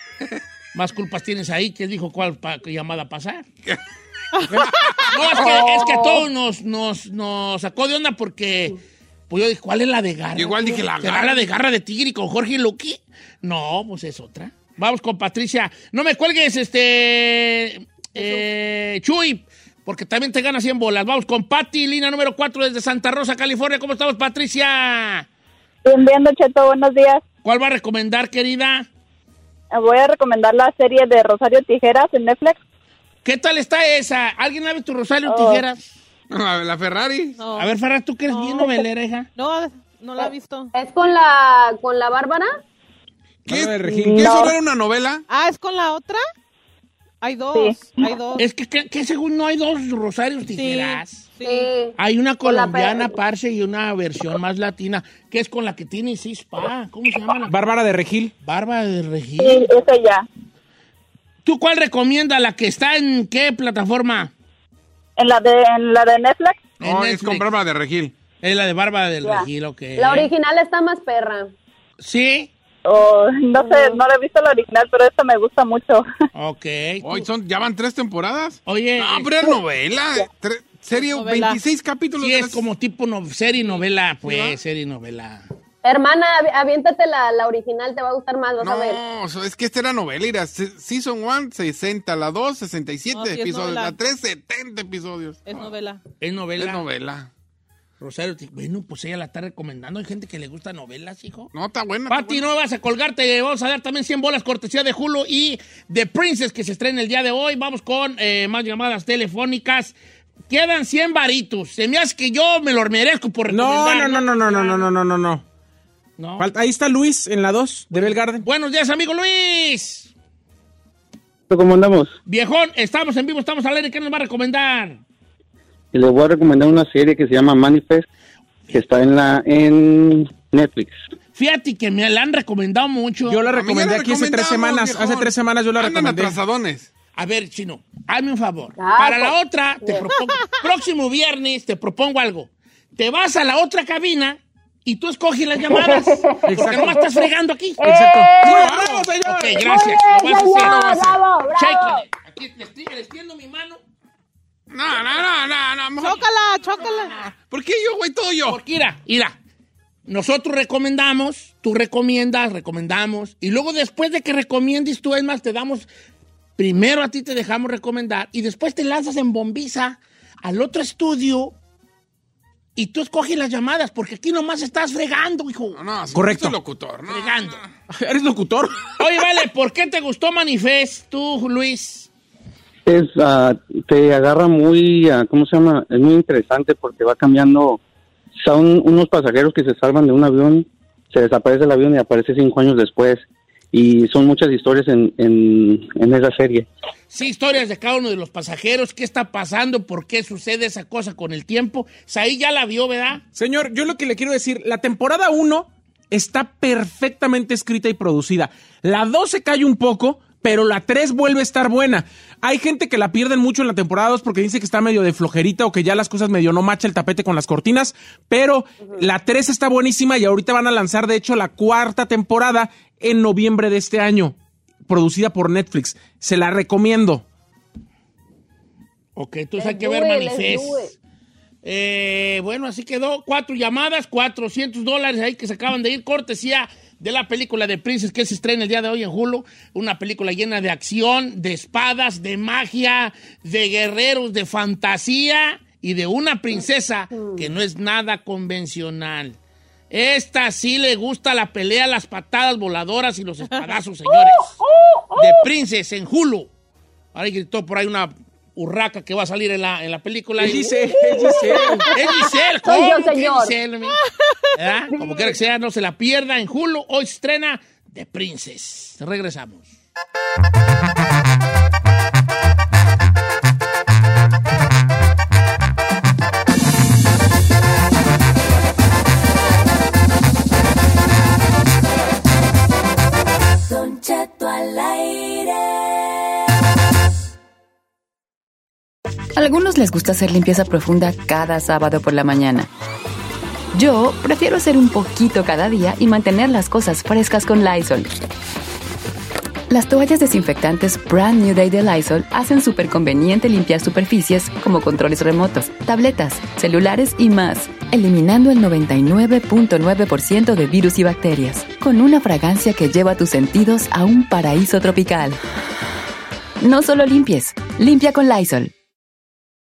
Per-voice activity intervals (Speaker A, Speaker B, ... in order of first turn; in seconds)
Speaker A: 0.7-3.5, 5.1-8.8, 9.3-25.3, 27.4-28.9, 33.2-36.0, 37.5-39.3, 48.4-51.2, 52.0-57.5, 58.4-59.7, 61.4-64.3, 66.8-67.5, 68.4-70.3, 72.0-72.5, 76.3-77.3, 78.7-79.3, 82.2-85.5, 96.2-96.8, 98.0-101.5, 102.1-110.0, 110.5-114.9, 116.2-116.5, 117.9-120.1, 122.3-125.0, 131.3-133.4, 137.2-147.9, 148.4-150.9, 151.5-153.8, 158.5-159.4, 160.1-165.9, 166.6-171.6, 172.8-175.8, 177.1-177.6, 179.0-182.1, 197.1-203.2, 229.2-230.9, 231.6-249.4, 249.9-254.6, 255.2-256.5, 257.1-260.7, 261.3-264.0, 264.6-269.7
Speaker B: 4.3-5.0, 18.2-18.4, 37.4-37.7, 38.3-38.8, 39.4-40.7, 45.3-46.2, 47.2-48.4, 50.5-51.7, 81.0-81.6, 83.6-84.6, 93.1-94.0, 95.5-96.0, 156.0-157.3
Speaker C: 4.5-5.7, 10.4-11.5, 36.3-37.4, 43.5-45.2, 66.8-68.1, 77.0-82.7, 88.6-95.7, 96.6-97.3, 101.5-102.4, 133.5-136.9, 148.5-148.8, 150.4-151.2, 154.7-156.3, 157.5-158.6, 175.8-177.7
Speaker D: 5.4-6.1, 40.2-42.5, 51.4-53.1, 70.0-71.5, 73.6-74.0, 85.8-89.0, 138.8-140.1, 145.7-147.1, 147.8-148.8, 149.6-152.0, 229.6-230.9, 254.6-255.4, 260.9-263.6, 264.9-265.3
Speaker E: 25.9-27.2, 29.7-32.6, 35.3-35.6, 43.9-44.5, 47.5-48.0, 59.4-60.3, 65.2-66.8, 72.8-76.1
Speaker F: 43.5-44.3, 57.5-58.3, 113.5-115.4, 116.4-118.4, 133.3-136.4, 146.5-147.0, 147.8-150.0, 176.1-176.6, 177.9-178.9, 203.3-224.4, 224.9-227.2, 260.4-261.9
Speaker G: 121.5-122.1, 125.9-128.1, 128.7-131.0, 182.9-187.8, 188.4-196.7
Speaker H: 283.6-286.1
Speaker I: 289.4-292.7, 293.7-298.2, 299.7-315.4, 316.6-318.7